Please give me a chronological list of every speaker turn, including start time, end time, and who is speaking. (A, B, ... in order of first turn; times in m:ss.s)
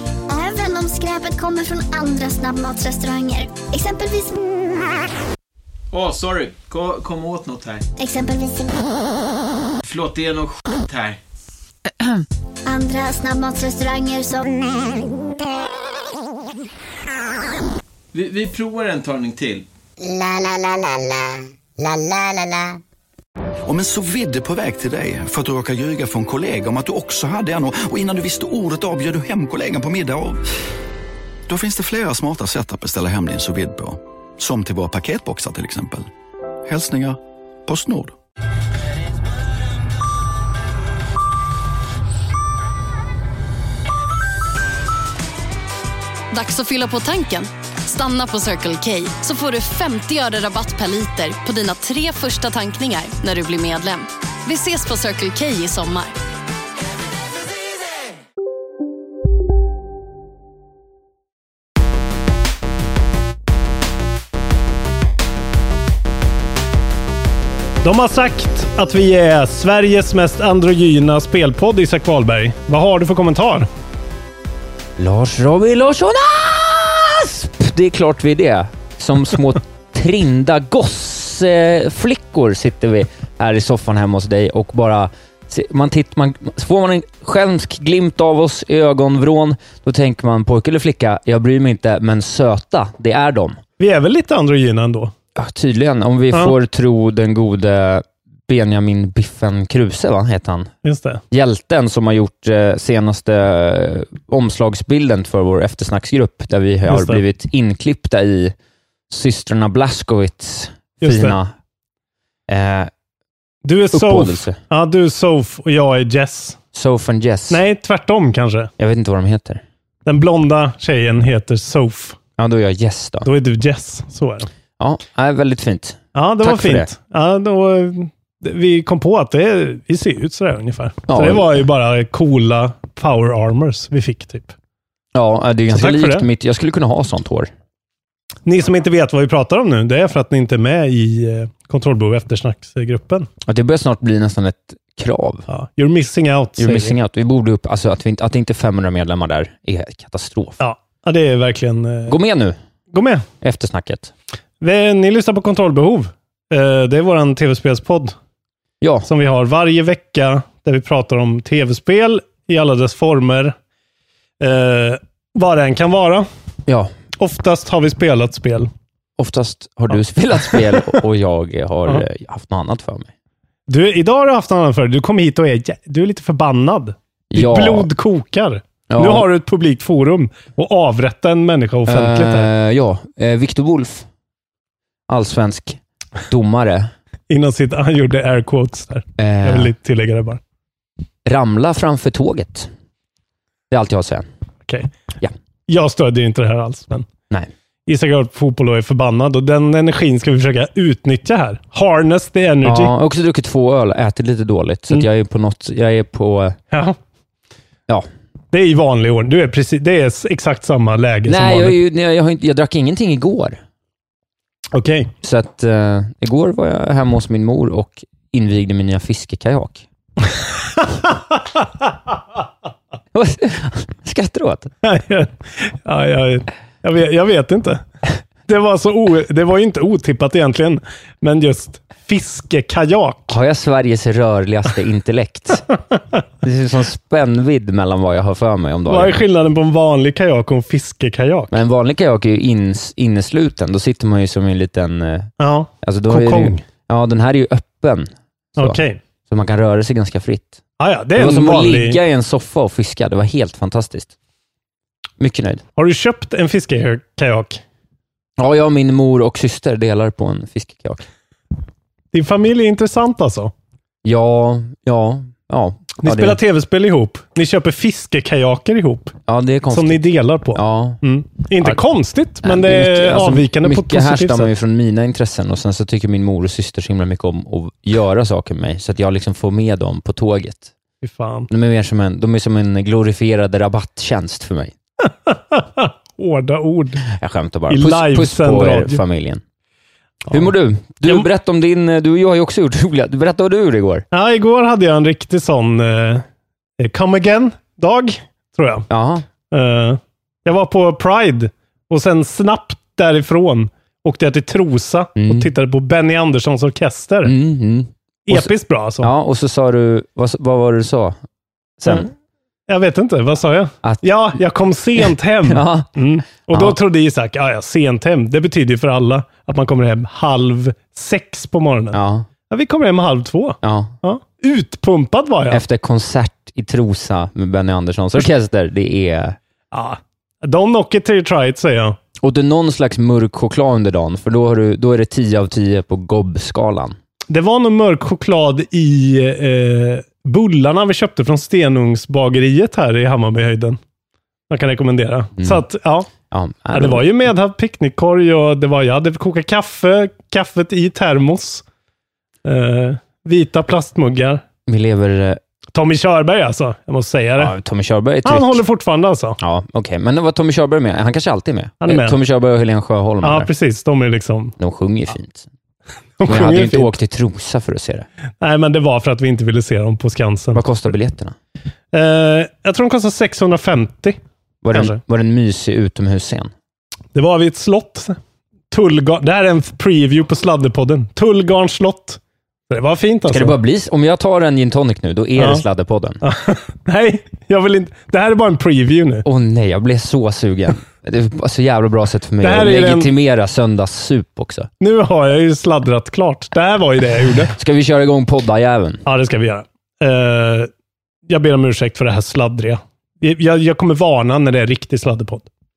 0:00.3-0:04.5 A
0:05.9-0:07.9 B
0:08.0-0:09.0 A
0:09.8-0:11.2 B
0:12.7-0:15.1 A
0:18.1-0:19.7 B
0:20.0-0:22.8 C
0:23.7-0:30.4 D
0:31.5-0:36.1 D
0:36.7-0:38.2 D
0:46.3-0:56.2 E
1:07.8-1:13.7 F
1:15.0-1:33.6 G
1:33.8-1:35.1 F
1:35.4-1:40.7 G
1:40.8-1:41.2 F
1:41.3-1:48.6 G
1:46.9-1:47.2 F
1:49.1-1:51.5 G
1:51.0-1:51.4 F
1:52.5-1:52.9 G
1:53.6-1:56.6 F
1:53.9-1:54.6 G
1:56.7-1:57.6 G
1:57.5-1:58.7 F
1:58.8-1:59.6 G
2:00.1-2:02.2 F
2:02.4-2:03.3 G
2:03.2-2:04.5 F
2:04.8-2:06.9 G
2:06.2-2:14.6 F
2:11.1-2:11.6 G
2:15.2-2:17.5 G
2:15.7-2:16.3 F
2:18.4-2:23.3 F
2:23.5-2:25.5 G
2:25.5-2:27.0 F
2:26.6-2:30.6 G
2:30.6-2:32.2 F
2:32.1-2:32.6 G
2:32.9-2:33.3 F
2:33.4-2:34.1 G
2:34.6-2:38.2 F
2:38.8-2:39.1 G
2:39.1-2:43.6 F
2:44.4-2:46.3 F
2:46.7-2:46.9 G
2:47.2-2:48.7 F
2:49.2-2:53.1 G
2:53.7-3:02.5 F
2:57.3-2:57.9 G
2:58.9-2:59.3 G
3:01.9-3:04.1 G
3:05.1-3:06.9 G
3:07.3-3:10.4 F
3:09.2-3:09.7 G
3:11.2-3:12.7 G
3:13.7-3:14.3 G
3:15.7-3:17.1 F
3:17.9-3:22.9 F
3:22.6-3:26.6 G
3:26.7-3:27.0 F
3:28.5-3:31.8 F
3:31.3-3:33.6 G
3:34.7-3:35.1 F
3:35.2-3:39.8 G
3:40.2-3:41.7 F
3:43.1-3:44.7 G
3:44.8-3:47.8 F
3:48.5-3:53.3 F
3:53.3-3:55.7 G
3:56.4-3:59.2 G
3:58.9-4:01.6 F
4:01.5-4:05.3 G
4:05.4-4:06.6 F
4:05.8-4:10.6 G
4:08.6-4:09.0 F
4:10.8-4:12.0 F
4:11.2-4:14.1 G
4:15.2-4:15.6 G
4:15.8-4:17.6 F
4:18.4-4:21.0 G
4:22.1-4:23.5 F
4:24.0-4:26.4 G
4:26.0-4:29.2 F
4:29.3-4:31.0 G
4:29.7-4:34.5 F
4:32.4-4:40.7 G
4:41.0-4:41.5 F
4:41.5-4:44.7 G
4:45.0-4:47.0 F
4:47.1-4:49.4 G
4:47.7-4:49.0 F
4:50.3-4:54.0 G
4:54.1-4:56.3 F
4:56.8-4:58.9 F
4:58.9-4:59.2 G
4:59.5-5:07.3 F
5:05.2-5:05.5 G
5:07.2-5:11.2 G
5:08.3-5:09.1 F
5:11.8-5:12.1 G
5:12.7-5:25.6 F
5:15.5-5:15.9 G
5:16.5-5:16.8 G
5:21.9-5:22.3 G
5:23.6-5:23.9 G
5:25.5-5:29.4 G
5:29.7-5:32.0 F
5:32.2-5:37.0 G
5:37.3-5:43.8 F
5:44.5-5:46.1 F
5:45.4-5:45.6 G
5:46.3-5:47.0 G
5:46.7-5:51.6 F
5:52.4-5:54.4 F
5:54.7-5:55.4 G
5:55.7-5:57.5 F
5:57.4-5:58.6 G
5:58.2-5:59.4 F
5:59.4-6:03.5 G
6:01.8-6:02.2 F
6:03.2-6:04.6 F
6:04.6-6:05.5 G
6:06.2-6:07.0 F
6:06.2-6:08.1 G
6:08.4-6:10.6 F
6:10.5-6:11.4 G
6:11.9-6:14.2 F
6:14.6-6:16.5 G
6:14.7-6:15.0 F
6:17.1-6:18.2 F
6:18.7-6:23.6 F
6:23.3-6:26.2 G
6:25.4-6:25.6 F
6:26.2-6:29.3 F
6:29.2-6:34.7 G
6:32.4-6:33.1 F
6:34.8-6:37.5 F
6:37.6-6:39.0 G
6:39.1-6:40.7 F
6:41.3-6:45.5 F